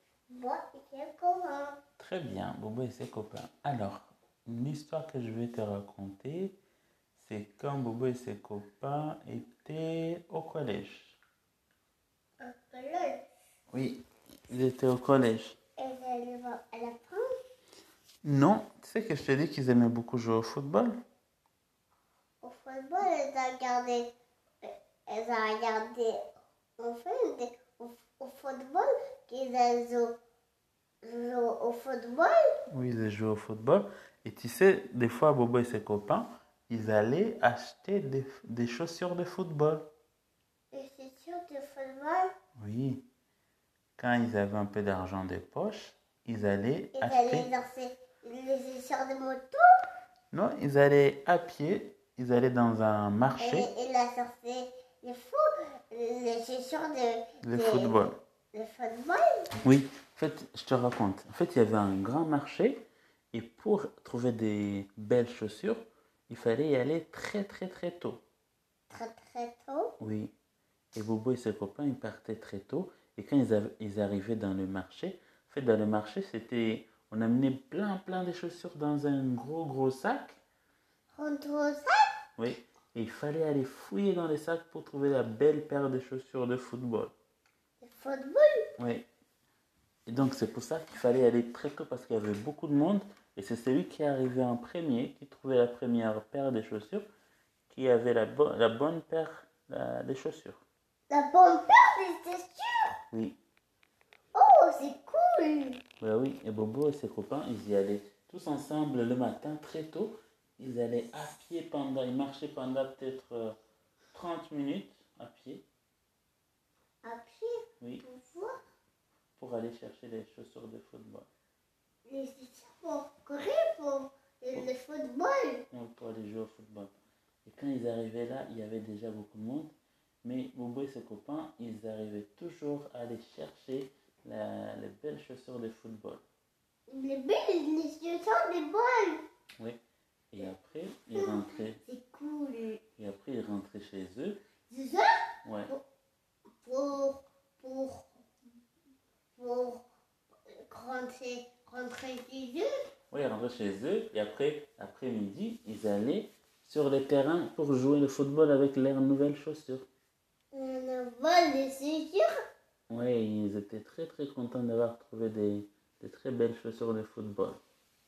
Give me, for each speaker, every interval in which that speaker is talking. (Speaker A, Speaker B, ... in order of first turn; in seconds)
Speaker A: 0.3-1.8, 12.4-13.2, 15.8-17.3, 22.4-26.2, 26.8-30.2, 31.0-32.5, 40.7-42.3, 46.9-49.6, 53.4-59.5, 68.9-69.9, 81.1-82.1, 87.8-88.7, 101.1-103.0, 104.3-105.8, 117.0-118.6, 122.1-125.7, 136.9-139.2, 141.2-142.8, 144.7-145.1, 146.6-148.2, 149.4-149.9, 150.5-152.7, 160.5-162.3
Speaker B: 2.0-6.6, 7.2-11.2, 13.7-15.6, 18.2-20.9, 32.7-39.9, 42.6-43.0, 44.0-47.5, 50.3-53.7, 57.4-58.2, 59.6-62.8, 63.3-68.2, 70.0-70.3, 71.0-80.4, 82.4-87.1, 88.8-89.1, 90.1-97.1, 97.7-100.6, 103.1-103.4, 106.0-113.6, 114.1-115.6, 119.4-121.3, 125.7-126.9, 127.5-129.7, 130.2-136.2, 140.3-141.8, 143.0-144.4, 145.4-145.7, 153.1-159.9, 162.9-167.6